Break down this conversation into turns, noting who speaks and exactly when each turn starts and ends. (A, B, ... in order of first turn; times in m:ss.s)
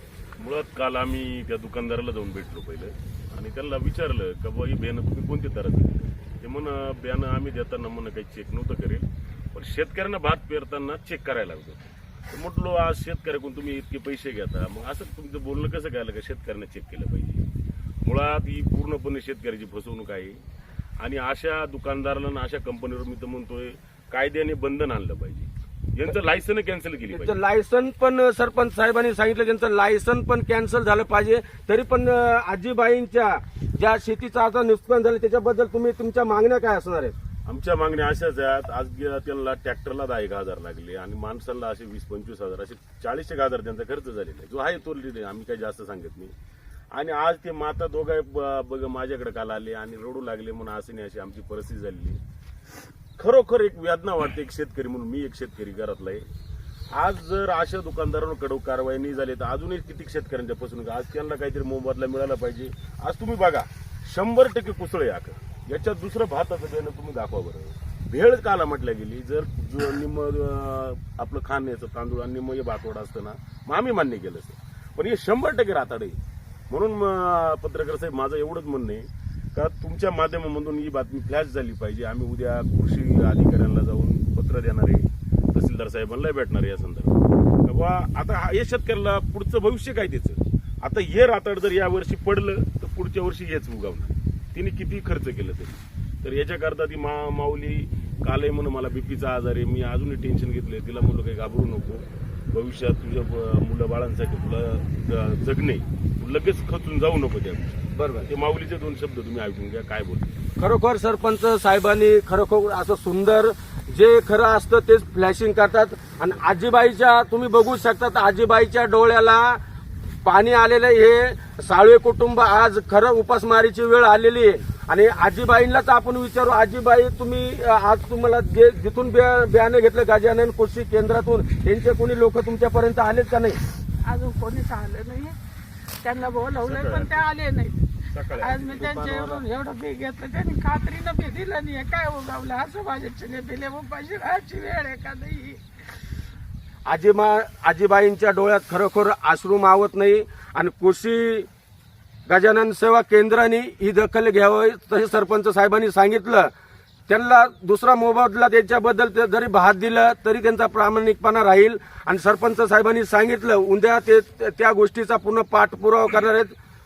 0:00.4-0:17.5 A
0:18.0-0:20.4 A
0:21.0-0:27.4 A
0:27.1-0:37.1 B
0:37.4-0:46.3 A
0:46.9-0:52.2 A
0:53.2-0:56.2 A
0:56.9-1:16.2 A
1:16.7-1:50.5 A
1:47.9-1:48.3 B
1:50.6-1:59.6 B
2:00.2-2:13.6 B
2:14.0-2:15.3 C
2:16.0-2:25.6 C
2:16.6-2:17.2 A
2:18.1-2:19.0 A
2:18.9-2:19.4 B
2:26.8-2:31.5 B
2:32.3-2:36.5 B
2:37.1-2:46.5 B